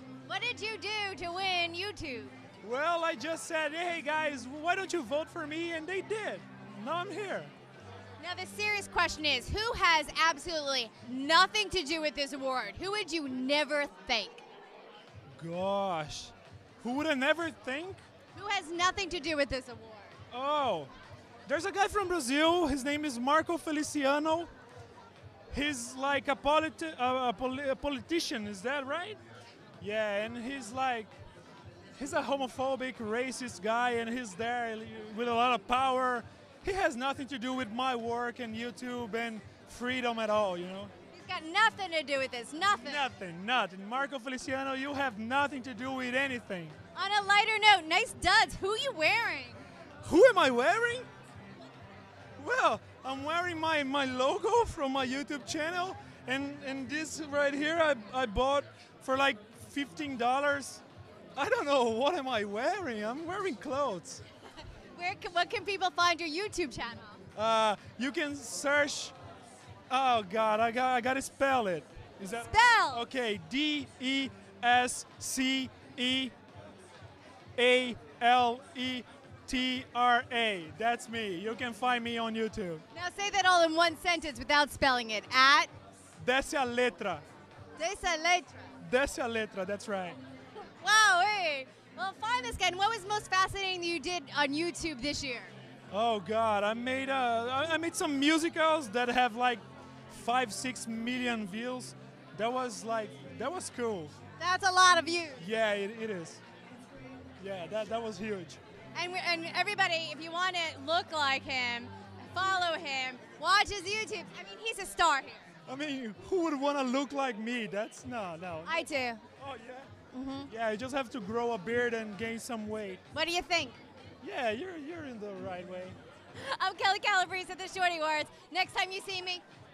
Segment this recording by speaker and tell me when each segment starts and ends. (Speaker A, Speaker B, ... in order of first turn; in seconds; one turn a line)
Speaker A: 0.3-2.3
Speaker B: 2.6-7.5
Speaker A: 8.2-14.4
Speaker B: 15.4-18.0
Speaker A: 18.3-20.1
Speaker B: 20.3-20.9
Speaker B: 21.5-24.5
Speaker B: 25.5-29.2
Speaker B: 29.8-31.1
Speaker B: 32.0-40.9
Speaker A: 41.1-43.1
Speaker B: 42.8-46.8
Speaker A: 46.9-49.6
Speaker B: 50.0-51.1
Speaker B: 52.4-60.8
Speaker B: 61.4-64.2
Speaker A: 64.9-67.2
Speaker B: 67.3-69.1
Speaker B: 69.9-76.3
Speaker A: 72.3-73.0
Speaker B: 77.5-82.8
Speaker A: 82.9-85.7
Speaker B: 86.2-87.2
Speaker A: 87.8-88.7
Speaker B: 88.8-90.2
Speaker A: 90.8-95.5
Speaker B: 95.9-104.1
Speaker A: 104.4-105.4
Speaker B: 105.4-106.4
Speaker B: 107.4-108.6
Speaker A: 108.9-115.4
Speaker B: 115.7-118.8
Speaker A: 118.7-119.2
Speaker B: 119.4-119.9
Speaker A: 120.1-120.5
Speaker B: 120.5-123.0
Speaker A: 123.1-123.8
Speaker B: 124.2-126.0
Speaker A: 126.3-129.4